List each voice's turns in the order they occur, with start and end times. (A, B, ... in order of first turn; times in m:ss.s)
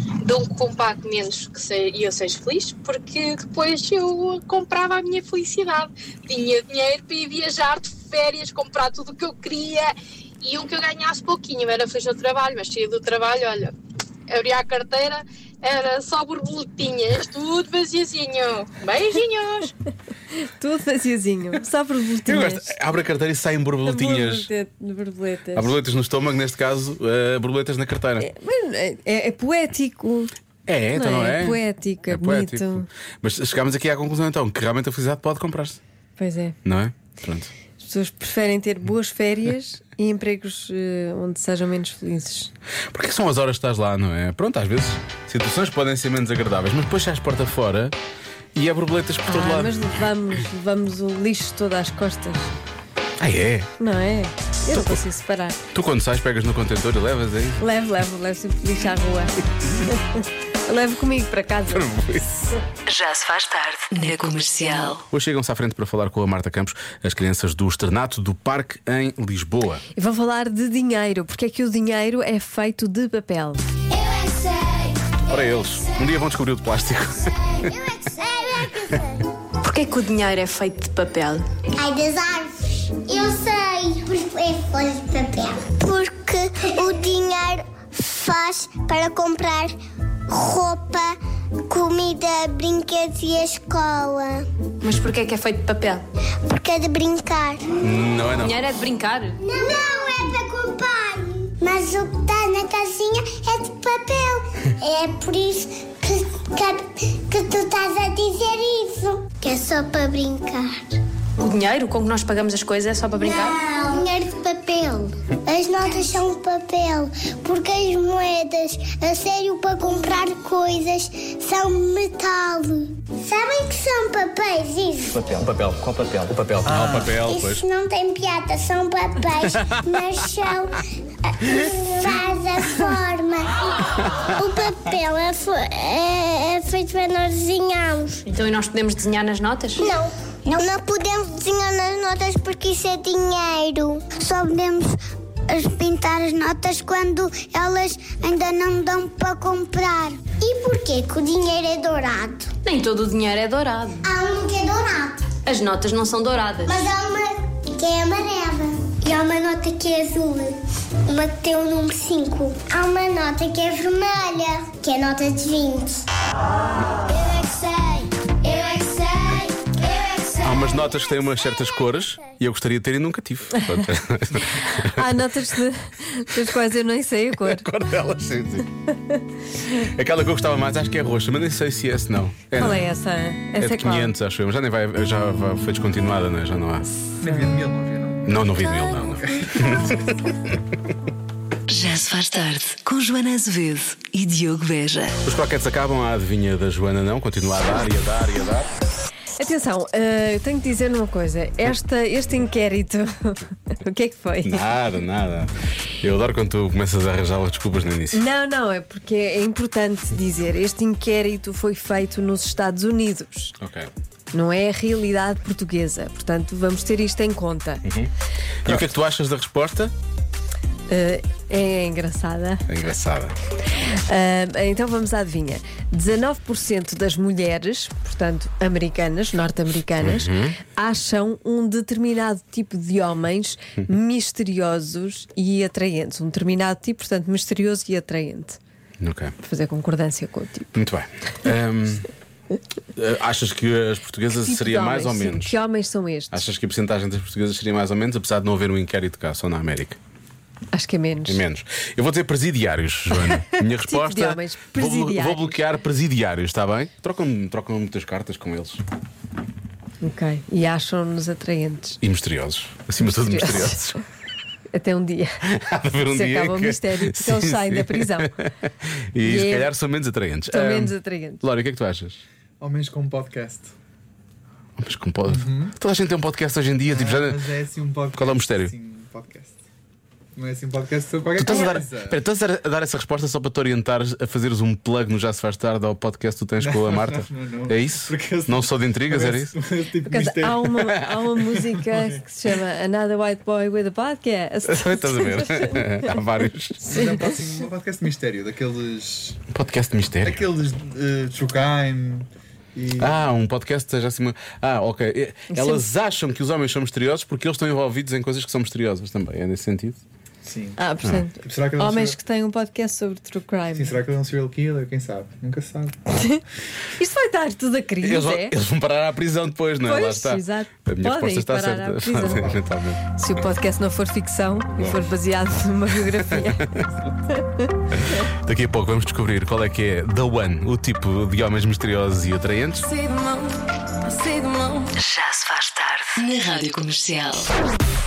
0:00.2-0:13.7 A
0:14.3-0:19.7 A
0:20.4-0:22.7 B
0:22.3-0:24.5 C
0:23.8-0:25.7 B
0:25.5-0:28.3 C
0:28.2-0:30.3 B
0:30.7-0:35.8 C
0:30.9-0:32.9 B
0:36.2-0:36.6 B
0:36.6-0:37.5 C
0:37.8-0:42.5 B
0:42.9-0:47.9 C
0:48.6-0:49.8 C
0:49.3-0:52.5 B
0:53.2-0:53.7 C
0:53.8-0:55.6 B
0:54.7-0:55.0 C
0:55.7-0:57.6 C
0:57.6-1:01.9 B
1:01.7-1:02.2 C
1:02.9-1:05.0 D
1:05.1-1:09.8 C
1:10.0-1:13.6 B
1:14.0-1:14.8 E
1:15.3-1:17.4 C
1:17.7-1:19.2 E
1:19.6-1:21.4 F
1:19.7-1:21.3 D
1:21.8-1:29.8 E
1:30.3-1:34.5 E
1:34.8-1:36.0 F
1:36.5-1:37.7 E
1:37.8-1:38.6 C
1:38.4-1:39.3 F
1:39.4-1:50.9 E
1:51.4-1:53.5 F
1:53.1-2:05.2 E
2:05.1-2:07.7 C
2:06.6-2:07.1 G
2:07.2-2:10.8 E
2:11.4-2:18.2 E
2:18.3-2:19.8 F
2:19.8-2:25.0 E
2:25.5-2:32.5 E
2:32.6-2:34.0 F
2:34.0-2:35.3 E
2:35.5-2:36.8 F
2:36.6-2:46.1 E
2:47.1-2:50.4 E
2:50.4-2:55.1 C
2:54.8-2:57.6 B
2:57.4-2:58.7 C
2:59.8-3:02.8 C
3:02.6-3:04.1 B
3:03.6-3:06.9 C
3:07.2-3:09.4 G
3:07.2-3:07.5 B
3:08.2-3:10.0 C
3:09.6-3:09.9 B
3:11.7-3:15.1 D
3:15.2-3:18.7 C
3:19.4-3:24.6 B
3:24.4-3:28.2 C
3:28.1-3:33.6 B
3:33.6-3:33.9 C
3:34.3-3:37.8 B
3:37.8-3:38.1 C
3:38.6-3:39.9 C
3:40.9-3:42.6 B
3:42.7-3:43.4 C
3:43.7-3:58.6 B
3:50.0-3:50.6 C
3:59.0-3:59.3 C
3:59.4-4:00.7 B
4:00.8-4:02.1 C
4:03.0-4:05.6 C
4:04.3-4:06.4 B
4:06.3-4:10.0 C
4:10.7-4:11.4 B
4:11.3-4:18.8 C
4:13.3-4:15.6 B
4:20.0-4:22.0 B
4:22.0-4:24.0 C
4:23.0-4:24.0 B
4:24.7-4:25.4 B
4:25.5-4:32.2 C
4:26.1-4:28.3 B
4:29.2-4:29.7 B
4:30.5-4:31.4 B
4:32.6-4:33.7 G
4:34.8-4:37.4 C
4:35.2-4:35.7 G
4:36.9-4:39.6 G
4:38.2-4:38.7 C
4:40.4-4:42.2 G
4:41.4-4:49.6 C
4:41.5-4:41.8 B
4:46.6-4:50.8 G
4:50.0-4:56.1 B
4:51.9-4:52.2 G
4:54.7-4:56.8 C
4:56.9-4:59.4 G
4:59.5-5:00.5 C
5:00.2-5:03.2 G
5:03.0-5:10.0 C
5:05.5-5:05.8 B
5:10.4-5:10.9 G
5:10.8-5:14.0 B
5:11.4-5:12.2 G
5:13.7-5:16.0 G
5:16.2-5:16.4 B
5:17.0-5:18.5 B
5:18.0-5:23.0 C
5:19.8-5:22.6 B
5:23.2-5:26.7 B
5:24.7-5:25.1 C
5:27.3-5:27.7 B
5:28.0-5:32.9 C
5:32.8-5:33.5 B
5:34.1-5:34.9 B
5:35.0-5:37.5 D